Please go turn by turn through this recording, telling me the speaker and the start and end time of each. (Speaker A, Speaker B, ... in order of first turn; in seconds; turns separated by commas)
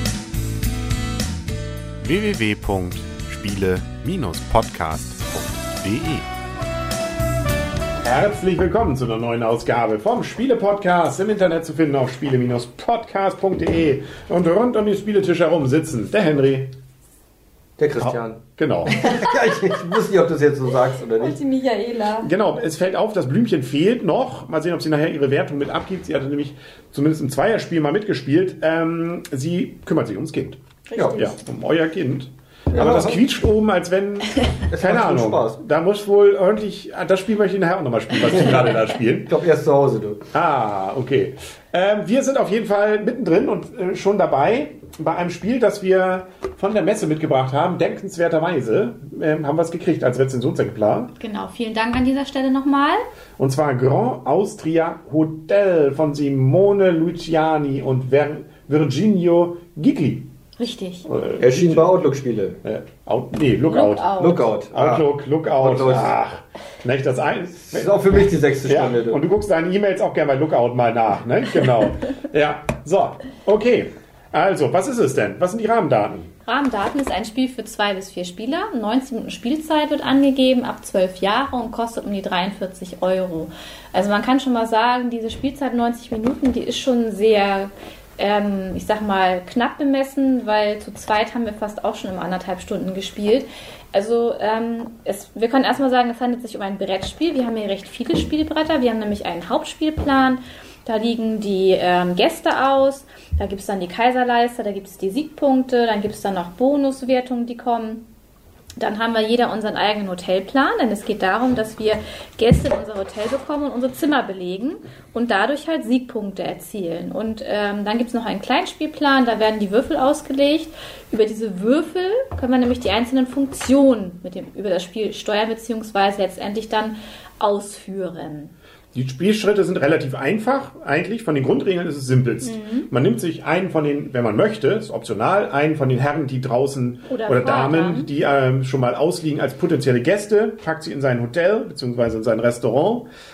Speaker A: 2.0-6.3, Speaker B: 3.2-3.5, Speaker B: 5.3-5.6, Speaker A: 8.0-16.7, Speaker B: 17.8-21.4, Speaker A: 18.0-19.1, Speaker C: 18.9-19.3, Speaker C: 21.2-22.3, Speaker A: 22.2-30.6, Speaker C: 30.9-31.4, Speaker B: 30.9-31.2, Speaker A: 31.1-39.3, Speaker B: 32.7-33.3, Speaker B: 34.7-36.1, Speaker B: 38.0-40.2, Speaker A: 40.3-50.3, Speaker B: 50.3-51.1, Speaker C: 51.2-53.0, Speaker A: 53.4-60.3, Speaker C: 60.6-61.1, Speaker A: 61.0-62.0, Speaker B: 61.4-63.1, Speaker A: 62.6-64.1, Speaker C: 63.6-64.5, Speaker B: 64.1-66.1, Speaker A: 64.7-76.3, Speaker B: 67.5-69.3, Speaker B: 71.2-71.6, Speaker C: 76.4-108.0, Speaker C: 108.8-128.5, Speaker B: 128.9-129.3, Speaker A: 129.2-143.1, Speaker B: 131.2-131.6, Speaker C: 132.4-132.9, Speaker B: 135.0-135.8, Speaker C: 137.1-138.1, Speaker B: 138.9-139.6, Speaker B: 140.9-142.4